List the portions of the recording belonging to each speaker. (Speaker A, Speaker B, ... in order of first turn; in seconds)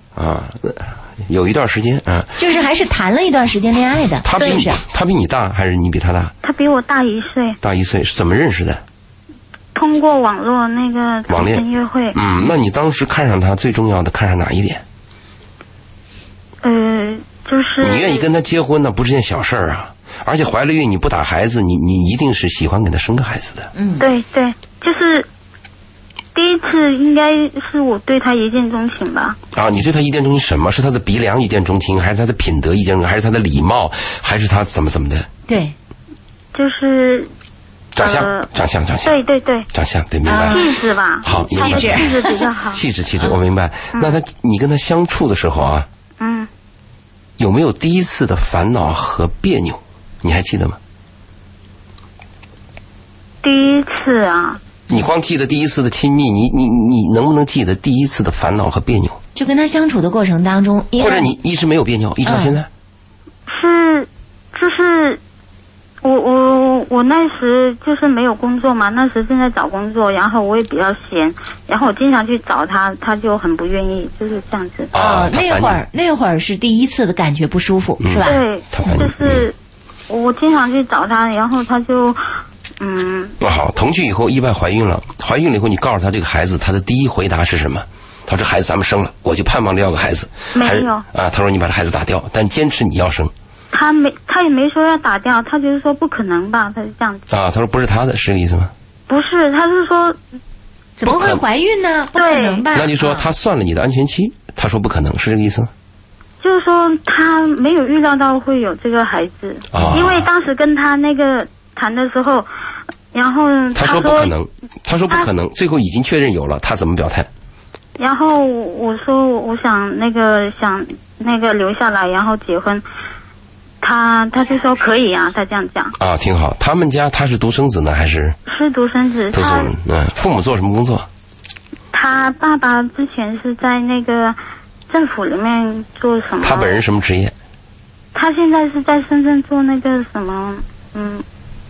Speaker A: 0.2-2.4, 4.2-6.3, 7.6-8.8, 11.3-14.8, 17.8-23.7, 29.5-35.3, 38.0-39.2, 39.7-40.7, 41.2-42.2, 42.7-45.9, 47.4-50.8, 54.9-59.2, 61.0-62.7, 74.9-75.8, 78.0-79.5, 83.4-93.3, 97.3-98.7, 101.0-101.4, 102.7-105.7, 109.7-110.2, 113.8-117.3, 126.0-128.4, 129.3-131.1, 136.4-137.3
Speaker B: 2.4-4.8, 23.8-24.1, 35.5-35.7, 40.2-40.7, 41.3-42.4, 59.4-61.3, 62.2-62.6, 75.0-78.4, 101.0-103.3
Speaker C: 6.4-7.6, 9.8-12.2, 16.6-18.2, 24.0-25.3, 26.4-29.4, 36.5-37.3, 38.0-38.5, 39.0-39.7, 40.5-42.8, 46.2-46.5, 53.4-54.6, 63.5-65.2, 66.0-74.9, 78.2-79.5, 80.1-82.3, 82.8-83.3, 90.5-91.0, 93.7-97.3, 99.1-100.2, 102.2-102.6, 106.4-112.5, 113.1-114.3, 118.0-122.8, 123.8-125.9, 128.5-129.7, 131.9-134.4, 134.9-136.8, 138.1-141.2